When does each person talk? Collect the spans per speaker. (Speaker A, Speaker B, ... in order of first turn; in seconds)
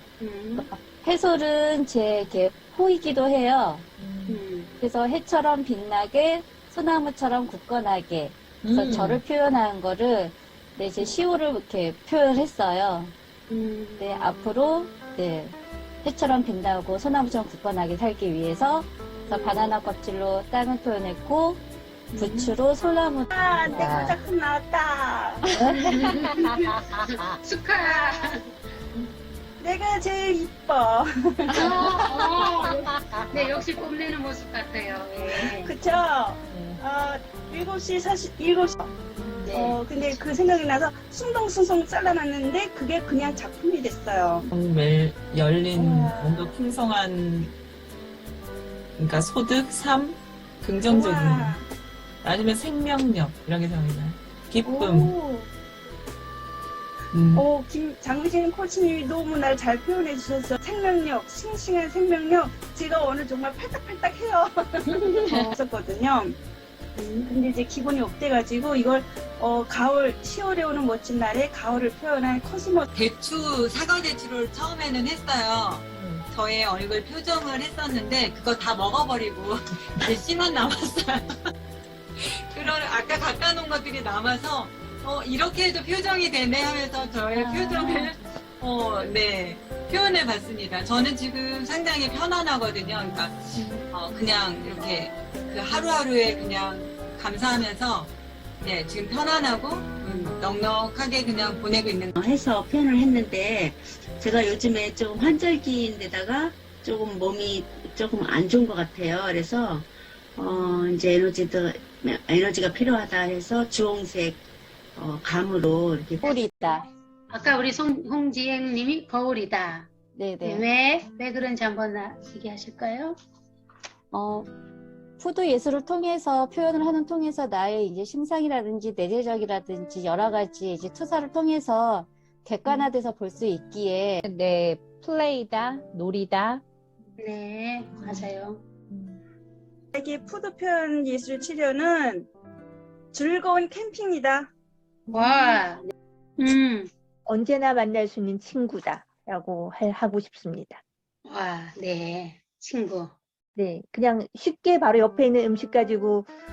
Speaker A: 0.2-0.7, 4.3-4.7, 13.5-14.1, 22.1-22.5, 25.9-28.4, 31.6-35.7, 39.4-40.0, 65.3-65.5, 67.0-67.3, 117.3-119.9, 120.4-123.2, 132.7-132.9, 137.2-138.7, 145.1-146.9, 151.2-153.1
Speaker B: 0.6-3.9, 4.8-13.2, 14.0-21.6, 22.2-24.0, 87.4-88.1, 116.2-116.9, 120.2-120.7, 124.1-124.5, 125.2-134.2
Speaker C: 4.0-4.4, 8.6-9.2, 23.5-24.2, 36.5-36.8, 75.9-76.2, 134.2-136.6, 138.9-139.2
Speaker D: 23.3-25.5, 27.9-28.2, 29.6-32.1, 35.2-38.9, 39.5-44.5, 45.7-46.5, 50.8-51.7, 54.6-55.5, 57.3-66.4, 67.2-72.8, 139.9-142.3, 143.1-144.5
Speaker E: 44.5-47.5, 49.0-51.6, 52.2-55.1, 57.1-57.5
Speaker F: 72.9-81.3, 82.2-102.2
Speaker G: 102.2-114.4, 115.0-116.3
Speaker H: 147.3-150.8, 153.6-156.3